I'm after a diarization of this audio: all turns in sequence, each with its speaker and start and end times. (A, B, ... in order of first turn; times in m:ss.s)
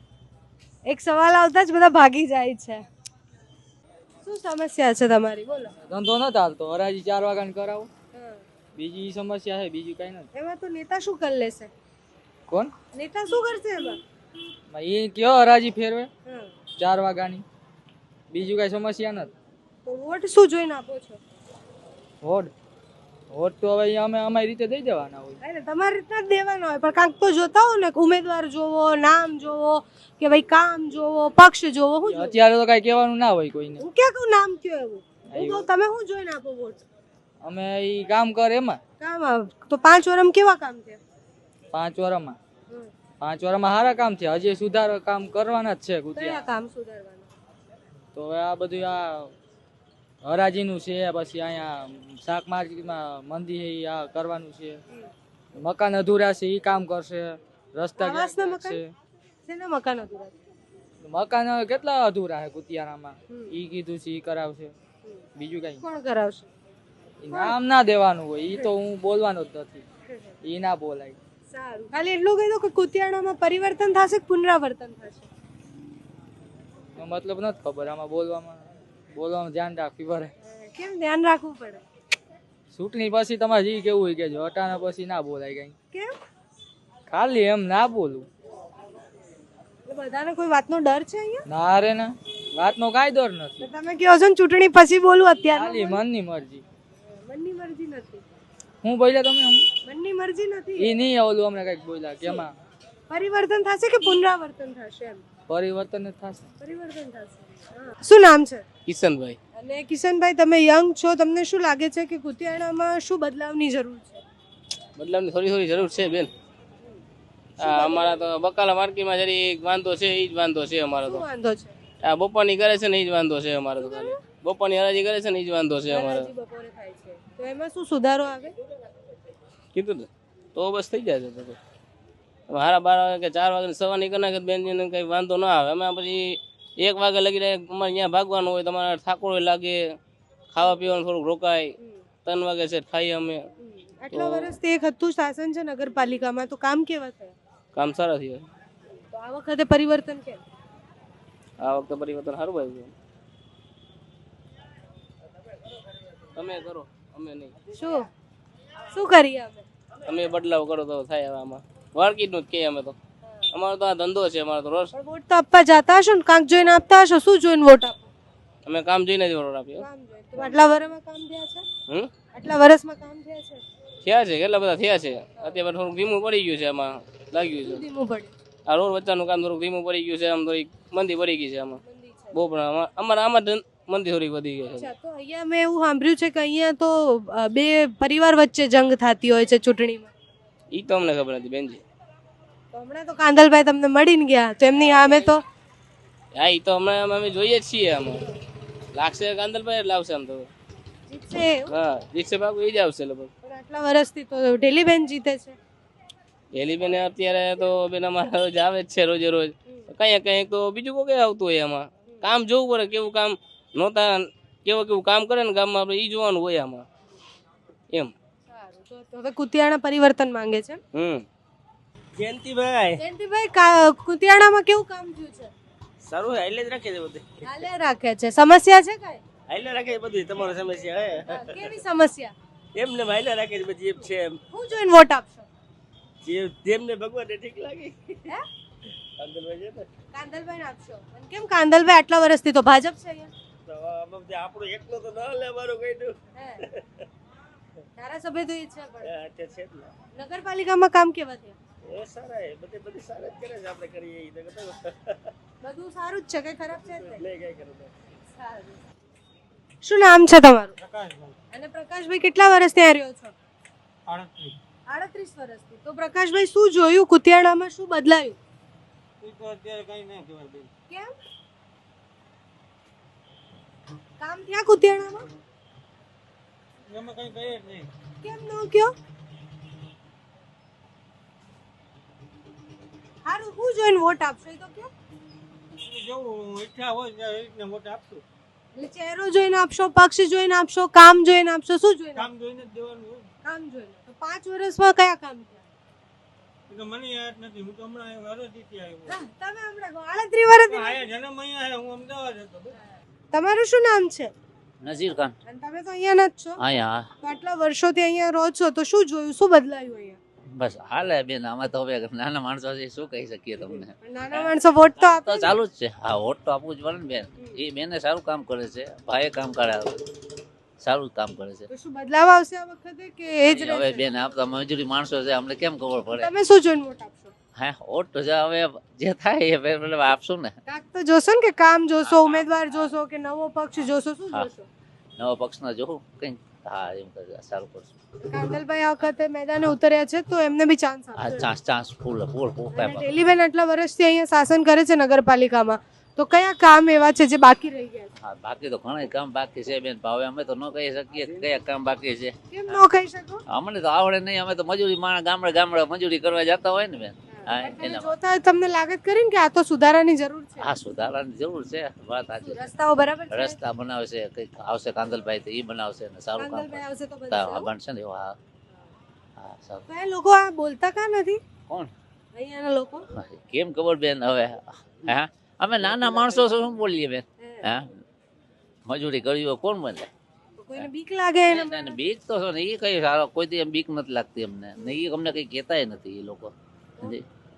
0:00.9-0:02.8 A
0:04.2-0:05.7 A
0:05.9-0:07.9 B
0:08.1-0:08.4 A
0:08.8-0:10.3 B
0:10.3-0:11.7 A
0:12.9-0:14.0 A
0:14.7-0:16.1 B
0:16.3-0:16.5 A
0:16.8-0:17.4 B
0:18.3-0:19.3 B
0:19.8-0:21.2 A
0:22.2-0:22.5 B
0:23.3-0:25.4 B
0:25.4-0:32.3 A
0:32.1-0:33.8 B
0:33.8-0:36.8 A
0:35.3-0:35.7 B
0:37.4-0:38.8 B
0:39.0-0:41.0 A
0:41.7-0:42.4 B
0:43.2-0:46.5 B
0:46.1-0:47.3 A
0:48.1-0:49.3 B
0:50.2-0:54.8 B
0:55.6-0:58.9 B
0:58.0-0:58.8 A
0:59.5-1:00.3 A
1:01.0-1:04.7 B
1:03.3-1:03.5 A
1:05.4-1:05.8 B
1:05.8-1:06.5 A
1:07.2-1:09.8 B
1:07.3-1:07.6 A
1:10.4-1:11.2 B
1:11.5-1:15.3 A
1:17.0-1:20.3 B
1:20.4-1:21.8 A
1:22.7-1:25.7 B
1:27.1-1:28.3 B
1:29.9-1:31.4 A
1:31.5-1:33.7 B
1:33.6-1:36.0 A
1:35.5-1:36.6 B
1:37.1-1:38.2 A
1:38.8-1:39.7 B
1:39.8-1:40.9 A
1:40.8-1:42.5 B
1:42.2-1:42.5 A
1:43.1-1:45.2 A
1:45.5-1:46.5 B
1:46.6-1:48.7 A
1:48.9-1:49.4 C
1:49.6-1:54.2 A
1:55.0-1:56.3 C
1:57.6-2:01.3 C
1:57.6-1:58.2 A
2:01.0-2:01.8 A
2:02.0-2:06.3 C
2:03.8-2:04.2 A
2:05.9-2:08.6 A
2:09.7-2:11.6 C
2:12.5-2:20.0 C
2:20.5-2:23.5 C
2:23.6-2:27.4 A
2:24.1-2:24.6 C
2:27.7-2:28.5 C
2:29.1-2:30.4 A
2:31.6-2:32.9 C
2:36.4-2:37.5 C
2:37.8-2:38.1 A
2:38.9-2:39.7 A
2:40.0-2:43.0 C
2:43.2-2:43.5 A
2:43.5-2:44.9 C
2:44.9-2:48.1 A
2:48.7-2:50.6 C
2:49.8-2:51.6 A
2:52.3-2:53.6 A
2:54.0-2:57.9 C
2:57.6-2:58.3 A
2:58.7-3:01.8 C
3:01.8-3:02.4 A
3:02.3-3:04.9 C
3:04.8-3:10.1 A
3:10.7-3:11.8 C
3:12.7-3:15.4 A
3:15.0-3:15.3 C
3:16.4-3:18.2 C
3:18.9-3:20.5 C
3:21.1-3:21.8 A
3:21.7-3:23.3 C
3:23.4-3:25.6 A
3:26.5-3:36.9 C
3:38.5-3:40.8 A
3:40.9-3:41.3 C
3:42.2-3:43.0 D
3:43.0-3:45.5 A
3:46.0-3:47.4 D
3:47.4-3:49.2 A
3:49.5-3:51.2 D
3:51.3-3:52.3 A
3:52.8-3:54.4 D
3:54.5-3:55.5 A
3:56.2-3:58.2 D
3:59.2-3:59.9 D
4:00.1-4:03.3 A
4:03.7-4:06.2 D
4:06.4-4:06.6 A
4:08.0-4:09.1 A
4:09.1-4:09.9 D
4:10.1-4:11.6 A
4:11.8-4:14.9 D
4:15.6-4:17.2 A
4:17.2-4:17.9 D
4:18.4-4:18.8 A
4:19.8-4:20.8 A
4:20.8-4:21.4 E
4:21.5-4:23.3 A
4:24.1-4:24.6 E
4:24.9-4:28.4 A
4:29.2-4:30.7 E
4:34.2-4:35.3 A
4:36.9-4:37.9 E
4:38.2-4:38.9 A
4:43.2-4:44.9 A
4:45.9-4:48.2 E
4:48.8-4:52.3 A
4:52.2-4:53.3 E
4:53.4-4:55.6 A
4:56.7-4:59.2 E
4:59.1-5:01.1 A
5:00.7-5:02.7 E
5:03.3-5:04.3 A
5:04.8-5:05.3 F
5:05.4-5:06.6 A
5:06.6-5:07.1 F
5:07.2-5:10.2 A
5:10.6-5:20.0 F
5:14.0-5:15.6 A
5:20.8-5:21.7 F
5:21.7-5:24.1 A
5:23.5-5:26.3 F
5:26.2-5:27.3 A
5:27.6-5:30.5 F
5:30.7-5:34.7 A
5:32.0-5:32.9 F
5:35.2-5:37.9 F
5:38.3-5:41.5 A
5:41.2-5:43.1 F
5:42.7-5:48.1 A
5:48.2-5:52.8 F
5:52.5-5:53.4 A
5:53.5-5:58.1 F
5:57.3-6:00.7 A
6:00.6-6:02.7 F
6:02.4-6:03.6 A
6:03.3-6:08.4 F
6:06.4-6:07.7 A
6:09.4-6:09.8 F
6:09.9-6:11.4 A
6:12.4-6:13.1 A
6:13.1-6:17.8 F
6:17.4-6:17.7 A
6:18.9-6:20.1 F
6:20.6-6:22.0 A
6:21.5-6:27.2 F